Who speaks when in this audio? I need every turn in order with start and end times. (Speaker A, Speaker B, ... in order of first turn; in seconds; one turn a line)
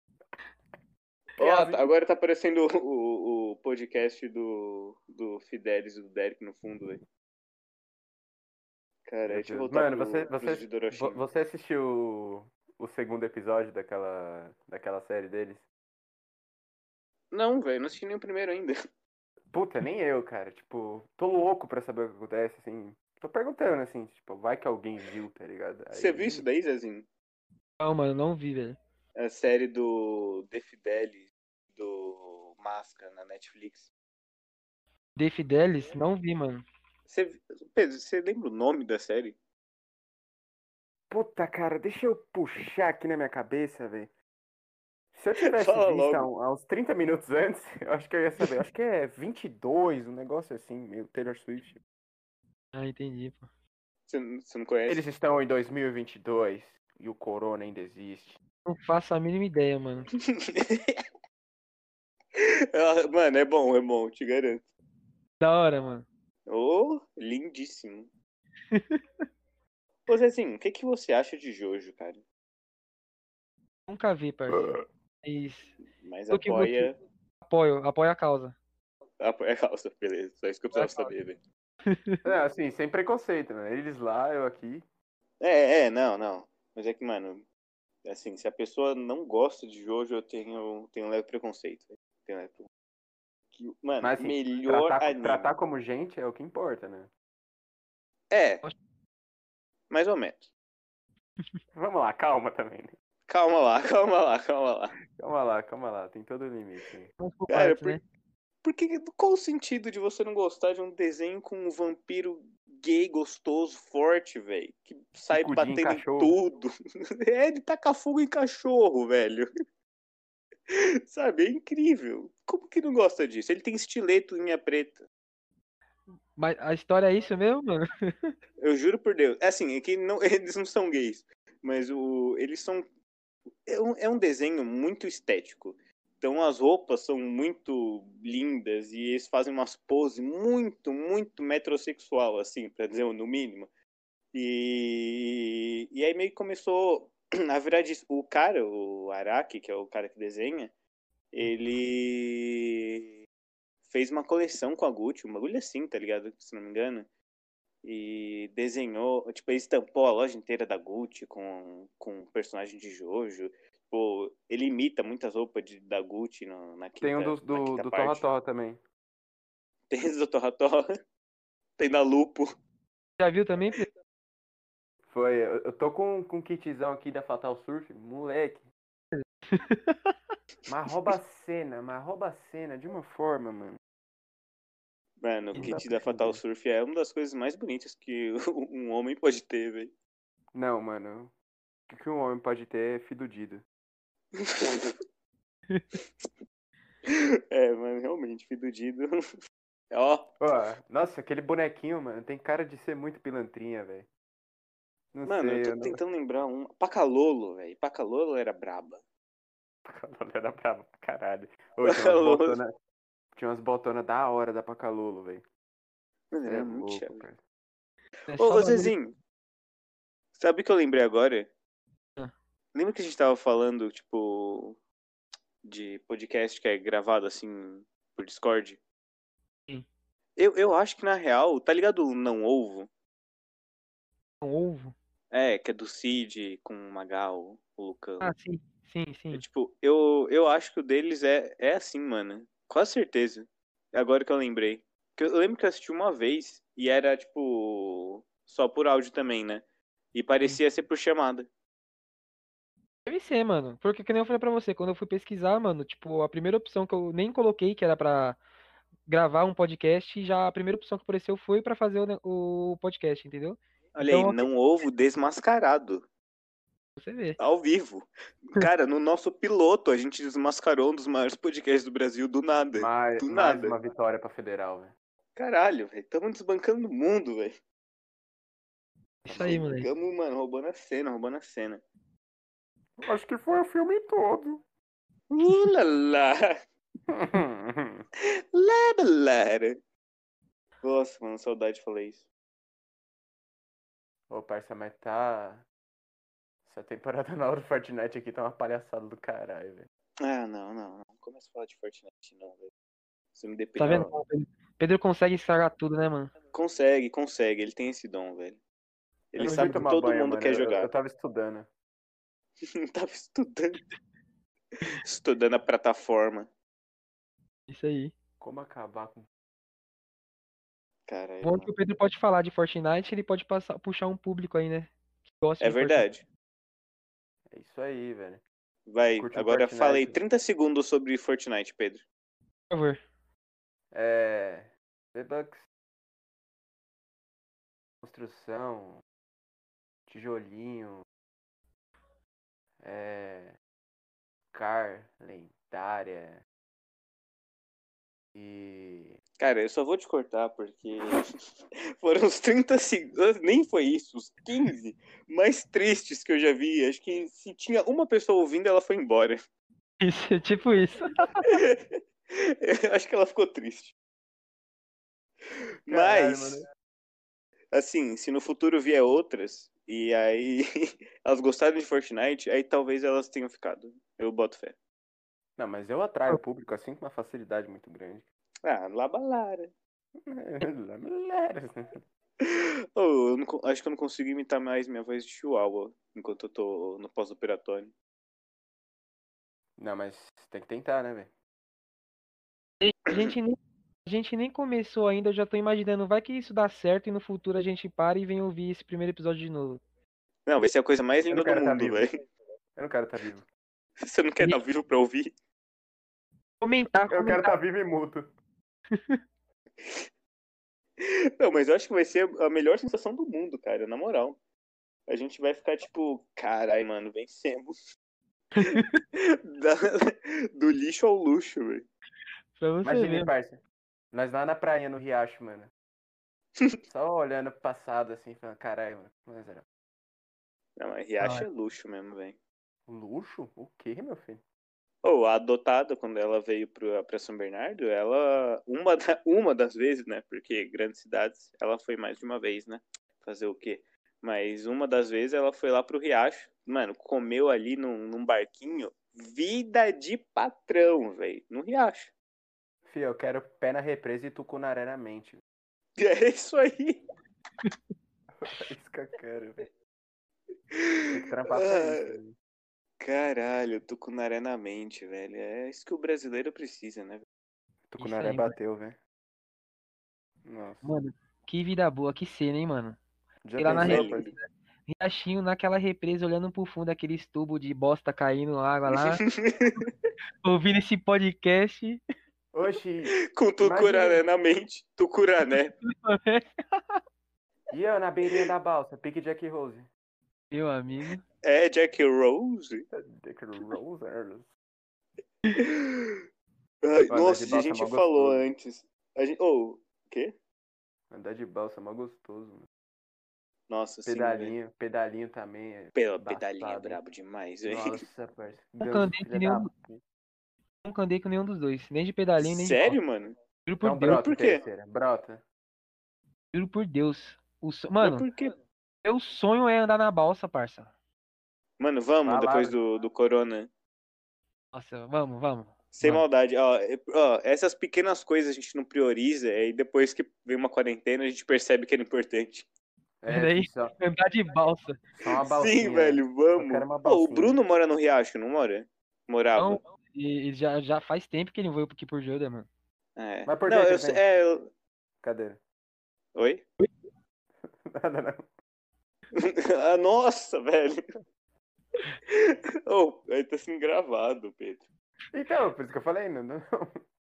Speaker A: 1.4-7.0
Speaker B: 1.4-1.8
Speaker A: 9.1-11.2
Speaker B: 9.3-15.7
Speaker A: 17.3-18.8
Speaker B: 19.5-26.5
Speaker A: 25.9-27.1
Speaker C: 27.8-28.8
Speaker A: 29.2-33.9
Speaker C: 35.2-36.6
Speaker A: 37.1-39.4
Speaker B: 41.1-44.1
Speaker B: 45.1-51.8
Speaker A: 45.5-46.3
Speaker C: 52.7-53.5
Speaker A: 54.1-55.1
Speaker B: 54.9-58.4
Speaker C: 58.7-60.1
Speaker A: 60.4-61.0
Speaker A: 62.4-64.7
Speaker C: 65.4-66.1
Speaker A: 66.5-68.1
Speaker C: 68.7-69.0
Speaker A: 70.1-72.2
Speaker C: 73.9-74.7
Speaker B: 74.5-74.8
Speaker C: 75.2-75.7
Speaker A: 76.0-77.0
Speaker C: 76.3-76.9
Speaker C: 77.4-78.6
Speaker A: 79.2-81.4
Speaker C: 80.7-81.1
Speaker C: 81.9-82.2
Speaker B: 82.2-84.9
Speaker A: 85.4-87.5
Speaker A: 88.0-92.7
Speaker A: 93.5-95.5
Speaker B: 94.0-97.1
Speaker A: 98.3-98.6
Speaker A: 99.9-100.5
Speaker B: 101.7-102.9
Speaker A: 103.3-105.0
Speaker B: 105.2-107.1
Speaker C: 107.2-108.0
Speaker A: 107.5-108.0
Speaker A: 108.6-119.5
Speaker B: 115.3-116.4
Speaker A: 120.7-125.0
Speaker C: 126.4-128.3
Speaker A: 128.6-132.8
Speaker A: 133.7-143.7
Speaker A: 144.3-150.7
Speaker A: 151.3-153.0
Speaker A: 153.8-157.1
Speaker A: 157.8-168.3
Speaker B: 167.0-168.8
Speaker A: 169.9-170.9
Speaker A: 171.8-172.6
Speaker C: 173.2-173.9
Speaker B: 175.1-178.6
Speaker C: 179.2-180.1
Speaker B: 180.7-183.8
Speaker A: 185.2-189.9
Speaker C: 185.6-186.4
Speaker B: 190.5-191.3
Speaker B: 191.9-193.7
Speaker A: 194.3-194.9
Speaker A: 197.1-199.2
Speaker A: 199.9-200.3
Speaker B: 200.4-204.1
Speaker B: 205.1-206.0
Speaker A: 205.2-209.0
Speaker B: 209.8-212.7
Speaker A: 211.9-212.6
Speaker B: 213.3-215.4
Speaker A: 216.3-217.2
Speaker B: 216.4-217.4
Speaker C: 218.3-218.9
Speaker A: 218.3-219.2
Speaker A: 220.3-221.5
Speaker A: 222.7-224.8
Speaker A: 225.6-228.8
Speaker A: 230.4-232.9
Speaker C: 234.4-234.9
Speaker A: 235.3-238.3
Speaker C: 238.2-239.4
Speaker A: 239.3-251.5
Speaker C: 253.1-258.4
Speaker C: 259.1-264.5
Speaker A: 263.9-266.1
Speaker C: 267.0-267.4
Speaker A: 267.4-273.8
Speaker B: 272.8-274.9
Speaker A: 275.4-277.6
Speaker C: 279.2-279.9
Speaker B: 279.3-279.6
Speaker A: 279.4-281.8
Speaker B: 283.0-284.6
Speaker A: 285.3-286.6
Speaker B: 287.1-288.1
Speaker A: 288.5-289.8
Speaker A: 290.8-292.3
Speaker B: 294.3-295.6
Speaker B: 296.6-299.9
Speaker A: 300.2-302.7
Speaker A: 303.3-304.1
Speaker C: 303.8-306.3
Speaker B: 303.8-304.1
Speaker A: 306.5-308.6
Speaker A: 309.3-310.9
Speaker B: 309.4-311.7
Speaker C: 309.4-309.8
Speaker A: 312.6-313.8
Speaker A: 314.8-316.5
Speaker C: 317.7-318.1
Speaker B: 318.4-319.3
Speaker A: 321.1-321.7
Speaker C: 321.4-326.1
Speaker A: 325.6-326.2
Speaker B: 327.5-328.4
Speaker A: 328.9-332.1
Speaker B: 329.2-330.2
Speaker C: 332.7-333.0
Speaker B: 333.9-335.6
Speaker B: 338.0-339.0
Speaker B: 340.1-341.1
Speaker B: 342.8-343.6
Speaker B: 344.5-346.4
Speaker B: 348.4-349.2
Speaker A: 349.4-351.2
Speaker A: 352.0-359.4
Speaker C: 360.0-361.5
Speaker A: 361.4-363.9
Speaker A: 365.9-366.6
Speaker B: 365.9-366.7
Speaker A: 367.7-374.8
Speaker B: 375.6-378.2
Speaker A: 378.6-379.7
Speaker B: 380.2-382.0
Speaker A: 382.4-387.9
Speaker B: 389.8-391.3
Speaker C: 392.8-399.8
Speaker A: 393.1-393.4
Speaker A: 400.5-402.2
Speaker B: 401.3-402.1
Speaker B: 402.8-403.5
Speaker A: 404.0-405.3
Speaker C: 406.6-407.5
Speaker B: 407.1-408.3
Speaker C: 408.9-409.2
Speaker A: 411.0-414.4
Speaker A: 415.1-417.7
Speaker C: 418.6-418.9
Speaker A: 418.6-421.9
Speaker C: 422.6-423.3
Speaker B: 422.8-423.6
Speaker B: 424.1-425.7
Speaker B: 426.9-429.6
Speaker A: 430.8-432.4
Speaker C: 431.2-431.5
Speaker B: 432.9-434.4
Speaker A: 435.0-452.1
Speaker B: 452.9-455.4
Speaker A: 456.0-457.0
Speaker B: 458.4-459.7
Speaker A: 460.7-462.2
Speaker B: 461.1-462.4
Speaker A: 463.0-467.3
Speaker B: 467.9-469.0
Speaker C: 468.0-468.6
Speaker B: 470.4-470.9
Speaker C: 470.8-473.0
Speaker B: 473.4-474.3
Speaker C: 473.6-479.3
Speaker A: 473.7-474.3
Speaker A: 478.9-479.9
Speaker C: 480.4-482.0
Speaker B: 482.5-484.2
Speaker A: 483.3-485.7
Speaker C: 485.9-487.0
Speaker B: 487.7-489.9
Speaker C: 490.5-491.2
Speaker A: 491.4-492.9
Speaker B: 492.9-494.5
Speaker A: 495.5-496.2
Speaker A: 496.8-500.3
Speaker B: 497.1-498.5
Speaker B: 501.1-502.7
Speaker A: 503.7-504.6
Speaker B: 504.1-507.0
Speaker A: 505.9-508.0
Speaker B: 507.7-510.0
Speaker C: 508.8-509.7
Speaker C: 510.8-513.0
Speaker A: 512.4-513.4
Speaker C: 513.7-514.2
Speaker B: 513.8-515.4
Speaker A: 514.1-514.6
Speaker C: 516.5-518.3
Speaker A: 518.0-518.5
Speaker C: 519.0-520.9
Speaker A: 521.8-523.7
Speaker B: 522.2-522.8
Speaker C: 524.7-526.2
Speaker A: 525.9-532.7
Speaker B: 533.2-534.0
Speaker C: 533.3-535.0
Speaker B: 535.1-537.6
Speaker A: 535.4-539.8
Speaker C: 539.6-542.7
Speaker A: 543.2-544.7
Speaker B: 543.5-544.2
Speaker B: 545.2-545.6
Speaker A: 546.4-546.7
Speaker B: 547.7-548.5
Speaker A: 549.3-551.0
Speaker A: 552.3-554.9
Speaker B: 555.3-557.0